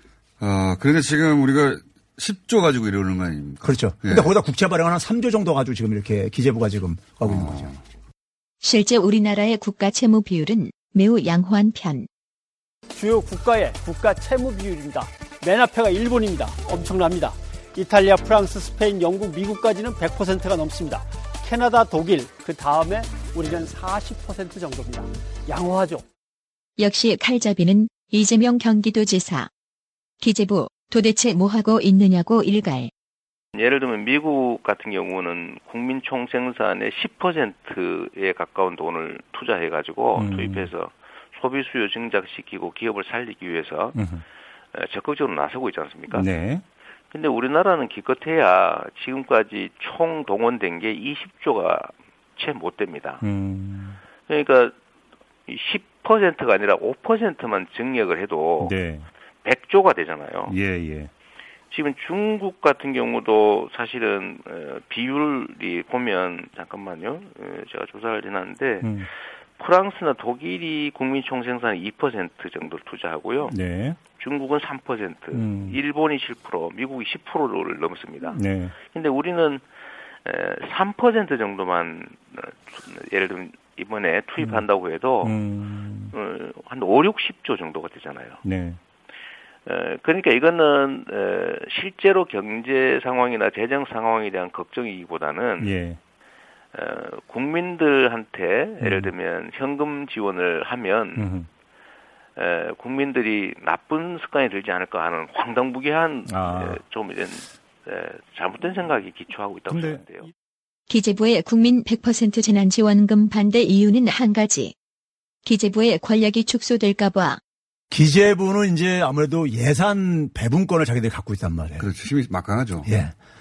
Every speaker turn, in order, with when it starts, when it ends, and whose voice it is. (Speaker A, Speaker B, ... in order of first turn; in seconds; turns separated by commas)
Speaker A: 0.4-4.3, Speaker B: 3.6-7.8, Speaker A: 7.2-7.8, Speaker C: 8.6-12.1, Speaker D: 12.9-26.0, Speaker C: 26.8-29.5, Speaker C: 30.2-32.9, Speaker E: 33.5-44.0, Speaker F: 40.1-40.7, Speaker F: 43.9-44.2, Speaker E: 44.7-46.4, Speaker F: 46.1-46.6, Speaker E: 47.1-53.2, Speaker F: 53.2-54.0, Speaker E: 54.3-54.7, Speaker E: 55.5-58.9, Speaker F: 58.6-59.1, Speaker E: 59.4-60.5, Speaker F: 60.5-61.1, Speaker E: 61.7-69.0, Speaker F: 68.8-69.1, Speaker E: 69.6-73.6, Speaker F: 73.5-74.0, Speaker E: 74.1-79.6, Speaker F: 75.3-75.8, Speaker F: 78.2-78.8, Speaker E: 80.2-85.5, Speaker F: 84.4-84.6, Speaker F: 85.2-86.1, Speaker E: 86.1-88.4, Speaker F: 88.4-88.8, Speaker E: 89.7-95.8, Speaker F: 95.6-96.0, Speaker E: 96.7-101.3, Speaker F: 98.8-99.1, Speaker F: 101.2-101.5, Speaker E: 102.4-110.3, Speaker F: 106.3-106.8, Speaker C: 110.9-114.7, Speaker C: 115.5-117.4, Speaker B: 117.9-121.9, Speaker A: 121.7-122.9, Speaker B: 122.8-123.1